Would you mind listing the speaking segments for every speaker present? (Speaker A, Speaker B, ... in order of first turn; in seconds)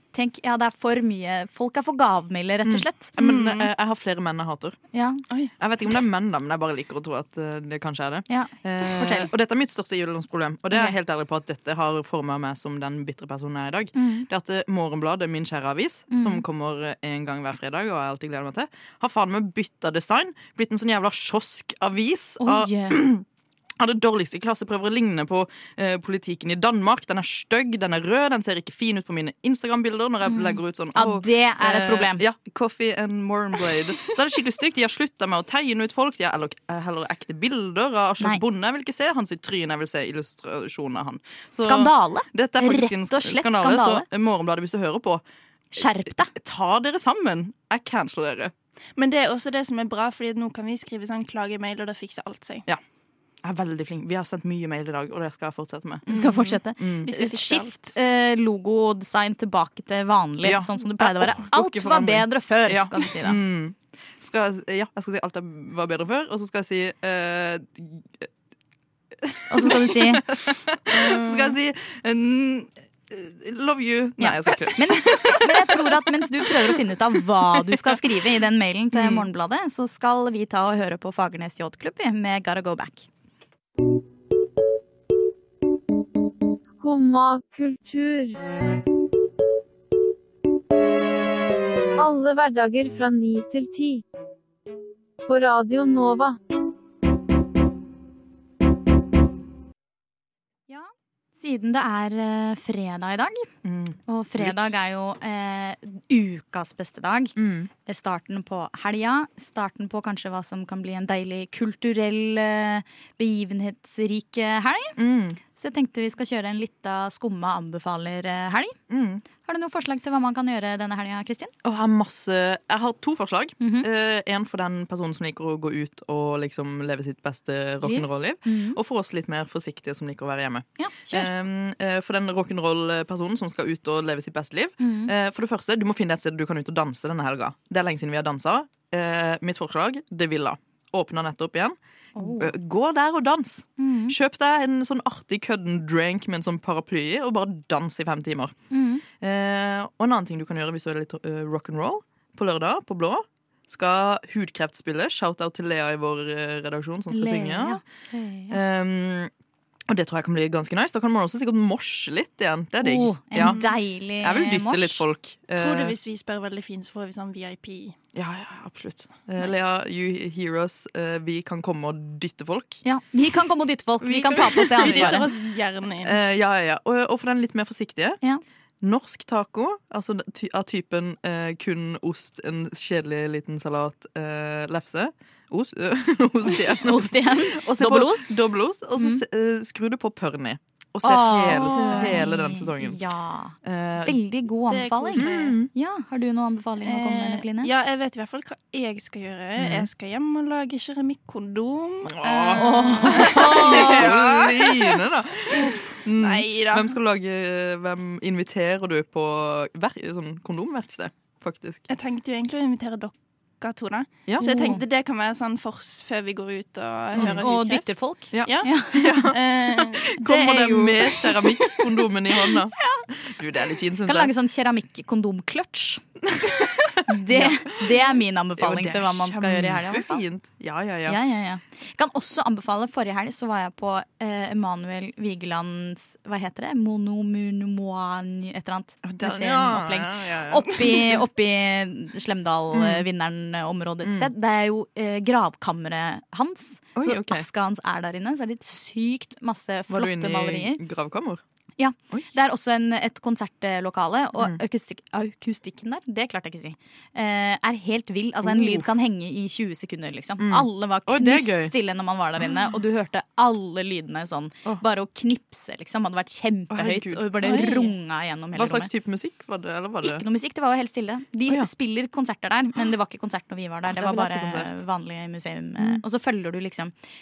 Speaker A: 0.1-3.1, 4.9-5.2, 8.3-9.3, 10.7-10.9, 13.9-14.3, 16.1-16.4, 22.4-23.0, 30.2-32.2, 41.6-44.0, 45.7-46.3, 56.1-63.4, 69.5-70.3, 70.9-71.5, 74.2-83.1, 100.7-103.5, 104.1-115.0, 115.5-118.8, 119.4-121.5, 123.6-123.9, 127.8-128.8, 130.8-131.3, 134.8-135.1, 142.2-142.5, 143.8-144.2, 148.7-149.0, 157.1-158.6, 162.8-165.0, 172.8-175.2, 186.5-188.3, 188.9-189.2, 191.0-197.7, 202.5-204.1, 214.4-214.8, 217.1-219.2, 222.8-223.0, 224.1-226.0, 227.1-230.2, 231.1-250.8, 251.8-268.9, 270.0-276.9
Speaker B: 2.6-4.8, 5.5-23.2, 23.8-45.2, 46.2-48.5, 53.4-57.1, 60.4-68.3, 69.2-78.0, 78.9-79.3, 103.6-104.8, 107.3-107.7, 115.0-115.4, 118.9-119.2, 121.6-148.6, 149.2-157.8, 158.5-159.3, 159.9-165.9, 168.1-172.8, 174.0-175.4, 176.0-178.2, 178.8-193.0, 193.6-194.2, 195.2-195.7, 199.6-199.9, 202.0-211.8, 214.2-214.8, 217.2-217.4, 218.3-224.3, 226.3-231.2, 239.0-241.2, 242.7-243.1, 244.0-244.3, 246.9-247.4, 249.9-251.4, 258.4-258.9, 260.4-261.7, 266.7-267.9, 268.5-270.2, 273.9-274.8
Speaker C: 3.2-3.7, 49.0-52.6, 56.1-57.9, 165.6-167.9, 174.5-176.2, 191.4-192.2, 194.7-195.6, 196.8-205.0, 205.5-206.9, 211.9-221.3, 267.4-267.8
Speaker D: 86.7-88.4, 92.0-94.0, 95.2-96.3